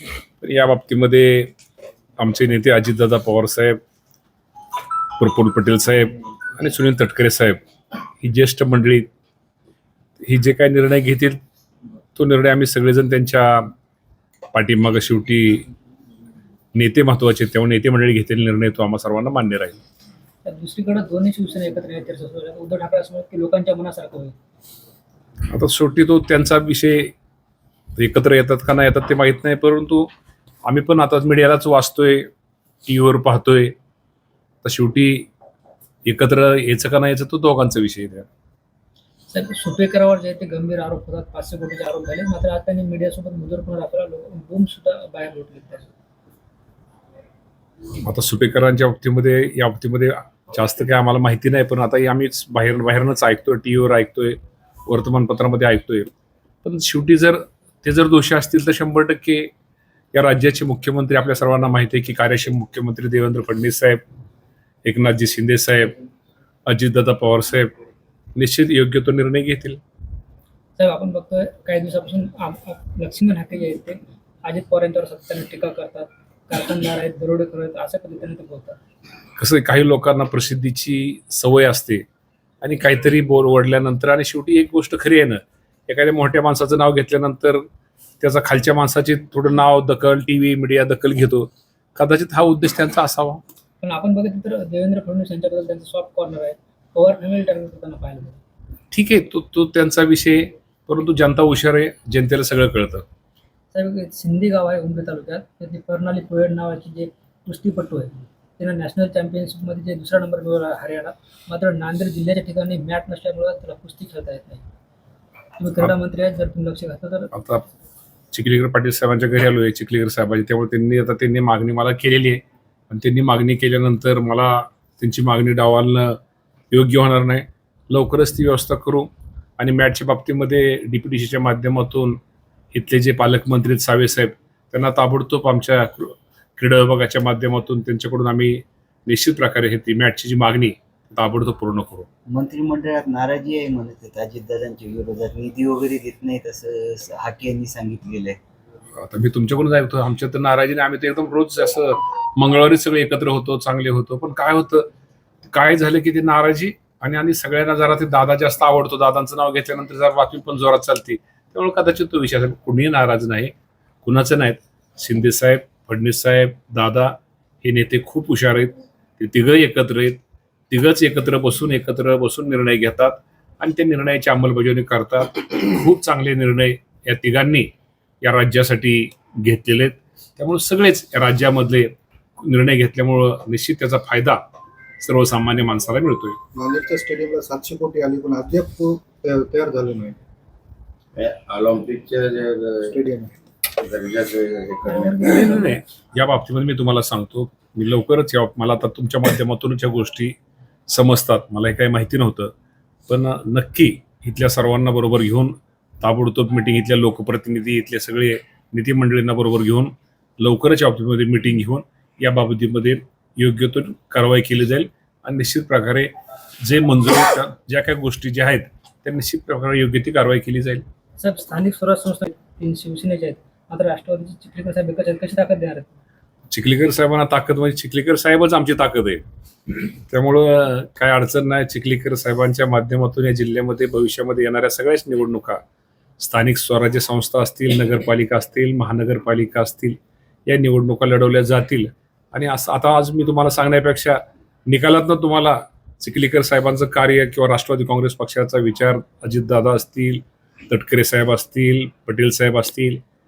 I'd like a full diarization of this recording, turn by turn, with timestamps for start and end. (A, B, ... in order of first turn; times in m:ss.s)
0:00.4-0:01.5 A
0:02.2-0:03.8 A
0:05.2-0:07.6 A
0:08.2-0:09.1 A
0:10.2-0:11.4 A
0:12.2-0:13.7 A
0:14.5-0:15.7 A
0:16.7-0:19.8 A
0:20.4-0:24.3 B
0:25.5-0:27.1 A
0:28.0-0:30.1 A
0:30.6-0:32.3 A
0:32.8-0:33.7 A
0:34.6-0:35.3 A
0:36.0-0:38.2 A
0:39.3-0:45.9 B
0:48.0-0:56.1 A
0:56.6-0:59.5 A
1:00.1-1:04.0 A
1:04.8-1:05.9 A
1:06.7-1:07.7 A
1:08.4-1:09.8 A
1:10.8-1:18.8 B
1:19.4-1:22.0 A
1:22.6-1:27.6 A
1:28.2-1:33.4 A
1:33.8-1:38.4 B
1:38.9-1:43.0 A
1:43.7-1:54.6 B
1:55.6-1:57.3 B
1:57.3-1:57.6 A
1:58.3-2:06.2 A
2:06.7-2:12.2 A
2:12.7-2:22.1 A
2:22.3-2:28.4 C
2:29.0-2:34.9 A
2:35.4-3:04.4 A
3:05.0-3:06.4 A
3:06.5-3:10.1 D
3:11.2-3:13.1 E
3:13.7-3:15.3 E
3:14.9-3:15.8 B
3:15.1-3:20.4 A
3:20.9-3:22.5 A
3:23.1-3:36.1 A
3:36.6-3:40.8 A
3:41.2-3:46.0 B
3:46.5-3:49.2 A
3:49.8-3:55.6 A
3:56.2-4:13.0 A